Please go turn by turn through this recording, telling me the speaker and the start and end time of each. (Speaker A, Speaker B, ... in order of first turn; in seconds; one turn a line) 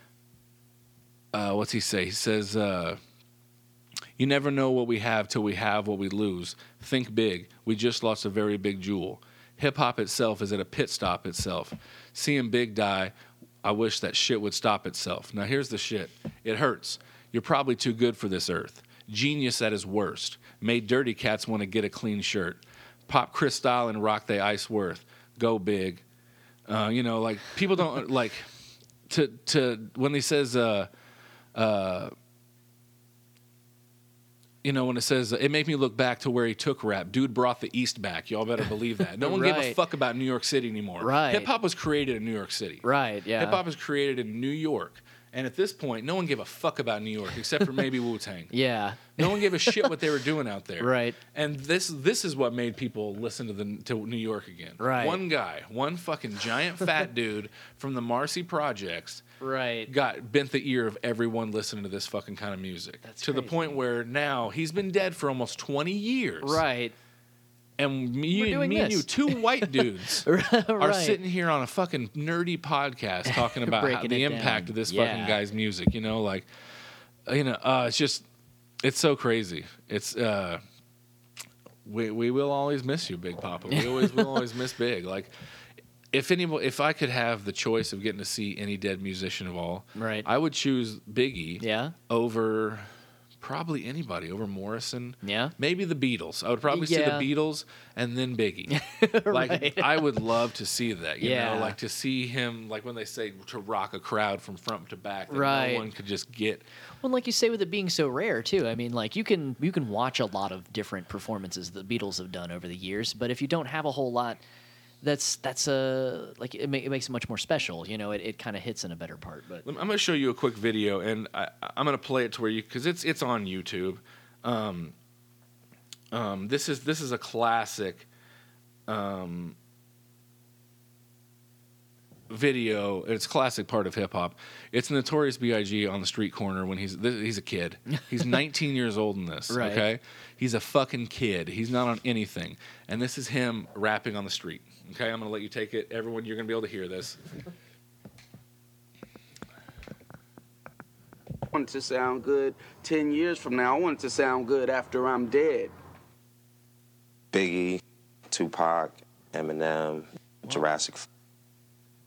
Speaker A: 1.3-3.0
Speaker A: 4.2-26.0
Speaker A: 26.7-28.4
Speaker A: 29.1-30.9
Speaker A: 31.5-32.1
Speaker A: 34.6-48.5
Speaker B: 39.2-39.8
Speaker B: 41.0-41.5
Speaker B: 42.8-43.6
Speaker B: 48.5-50.0
Speaker A: 49.2-59.2
Speaker B: 50.8-51.2
Speaker B: 54.8-55.2
Speaker B: 59.4-59.9
Speaker A: 59.9-66.6
Speaker B: 63.0-63.8
Speaker B: 66.4-66.9
Speaker A: 67.8-76.5
Speaker B: 68.3-71.2
Speaker B: 73.3-75.4
Speaker A: 77.2-78.2
Speaker A: 78.8-80.6
Speaker A: 81.8-85.3
Speaker B: 83.7-84.4
Speaker A: 86.1-92.9
Speaker B: 90.0-90.3
Speaker B: 91.6-91.9
Speaker A: 93.4-98.8
Speaker B: 95.2-95.5
Speaker B: 96.7-97.3
Speaker B: 98.7-100.2
Speaker A: 99.3-106.7
Speaker B: 101.2-101.8
Speaker B: 105.3-105.9
Speaker B: 107.0-114.4
Speaker B: 115.0-119.7
Speaker A: 119.6-124.9
Speaker A: 126.1-128.1
Speaker A: 128.9-129.6
Speaker A: 132.3-147.2
Speaker B: 139.5-139.8
Speaker C: 151.5-155.7
Speaker D: 157.3-161.1